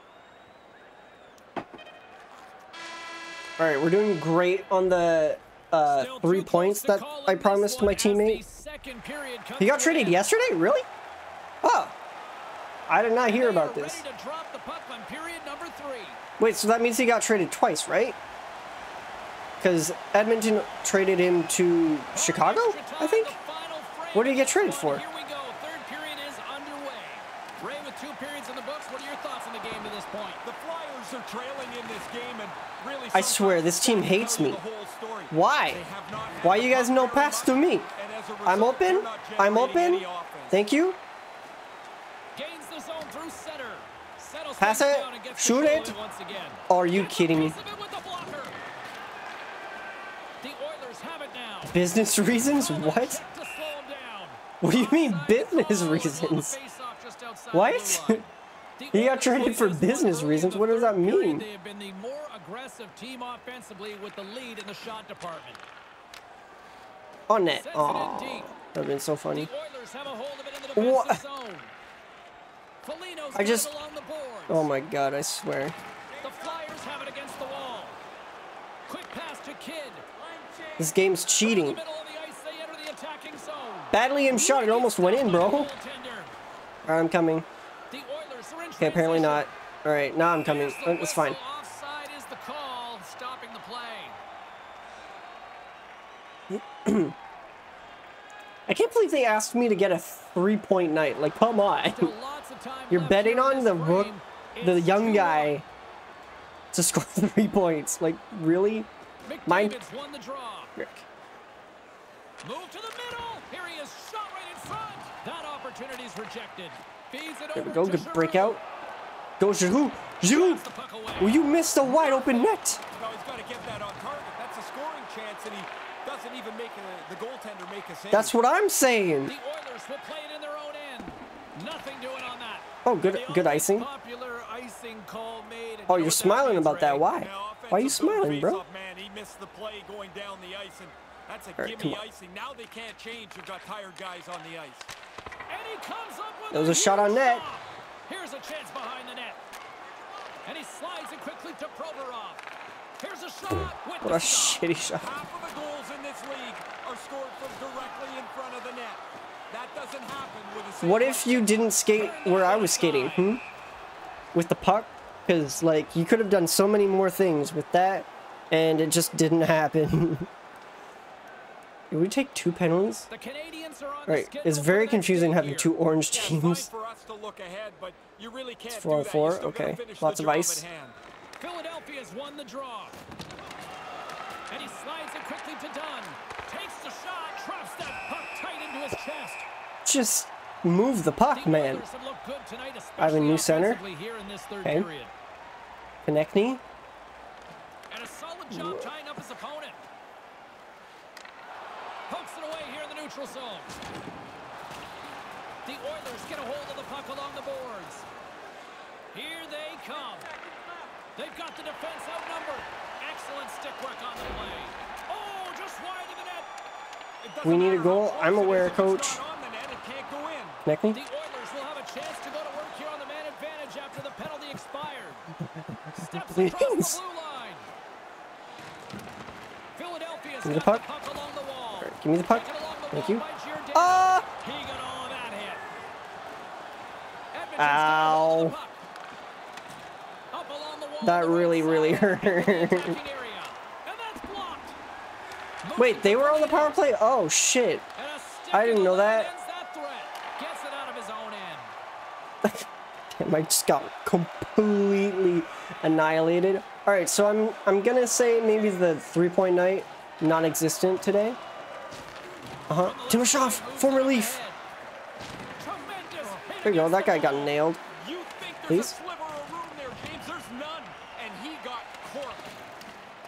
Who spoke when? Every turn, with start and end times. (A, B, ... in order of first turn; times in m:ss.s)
0:03.6-0:08.4 A
0:05.9-0:10.3 B
0:09.6-0:10.8 A
0:11.6-0:12.0 A
0:12.9-0:14.0 A
0:13.2-0:16.2 B
0:16.4-0:18.2 A
0:19.6-0:23.4 A
0:22.1-0:30.4 B
0:24.1-0:25.0 A
0:30.4-0:40.6 C
0:33.1-0:34.6 A
0:35.3-0:35.8 A
0:36.4-0:37.9 A
0:38.4-0:41.0 A
0:42.4-0:48.6 B
0:44.6-0:46.0 A
0:46.7-0:47.6 A
0:50.4-0:51.8 B
0:51.7-0:53.2 A
0:52.5-1:05.6 B
0:54.6-0:56.6 A
0:57.5-0:58.2 A
0:58.9-1:01.5 A
1:07.3-1:09.5 A
1:07.5-1:08.5 B
1:09.3-1:11.7 B
1:10.8-1:11.2 A
1:12.8-1:14.7 B
1:13.3-1:13.7 A
1:14.5-1:15.8 A
1:16.2-1:18.0 B
1:18.9-1:20.0 B
1:20.3-1:20.8 C
1:20.8-1:21.8 A
1:21.4-1:26.3 B
1:23.9-1:25.7 A
1:26.9-1:27.5 A
1:27.9-1:29.5 B
1:28.8-1:31.4 A
1:30.4-1:34.2 B
1:36.5-1:37.2 A
1:38.7-1:42.1 A
1:41.9-1:45.6 B
1:42.9-1:45.6 A
1:46.7-1:48.9 A
1:49.2-1:50.8 B
1:49.5-1:49.8 A
1:50.8-1:51.1 A
1:52.4-1:58.6 B
1:57.6-1:58.6 A
1:59.4-2:00.7 A
2:00.2-2:02.6 B
2:01.2-2:02.8 A
2:02.9-2:08.4 C
2:08.1-2:09.4 A
2:09.2-2:17.1 B
2:12.8-2:13.9 A
2:15.9-2:18.6 A
2:17.2-2:24.9 C
2:21.6-2:22.0 A
2:25.5-2:29.4 B
2:26.5-2:27.4 A
2:30.4-2:32.4 B
2:33.0-2:34.7 B
2:34.0-2:35.1 A
2:35.0-2:41.4 C
2:40.8-2:43.4 A
2:41.6-2:43.4 B
2:44.3-2:50.3 A
2:51.9-2:53.1 A
2:53.1-2:55.8 B
2:54.1-2:56.7 A
2:56.1-3:01.0 C
2:58.7-3:00.7 A
3:01.4-3:03.0 B
3:04.5-3:09.5 B
3:09.8-3:11.8 A
3:11.3-3:15.1 B
3:13.0-3:13.8 A
3:16.0-3:16.6 A
3:17.9-3:19.8 B
3:18.5-3:18.9 A
3:22.1-3:23.8 B
3:25.6-3:28.1 B
3:29.1-3:30.3 B
3:31.2-3:36.5 B
3:37.2-3:40.6 C
3:37.4-3:39.2 A
3:40.6-3:41.0 A
3:40.9-3:45.3 B
3:46.0-3:47.7 B
3:46.1-3:47.0 A
3:49.8-3:55.6 B
3:50.4-3:50.8 A
3:51.8-3:54.3 A
3:57.3-3:58.8 B
3:57.6-3:58.6 A
4:00.3-4:04.8 B
4:01.0-4:03.0 A
4:05.6-4:06.7 B
4:05.8-4:07.8 A
4:08.0-4:11.7 B
4:08.5-4:09.3 A
4:12.4-4:21.4 A
4:22.7-4:24.4 A
4:22.8-4:24.6 B
4:25.6-4:27.6 B
4:26.6-4:27.8 A
4:27.9-4:32.6 C
4:28.7-4:29.0 A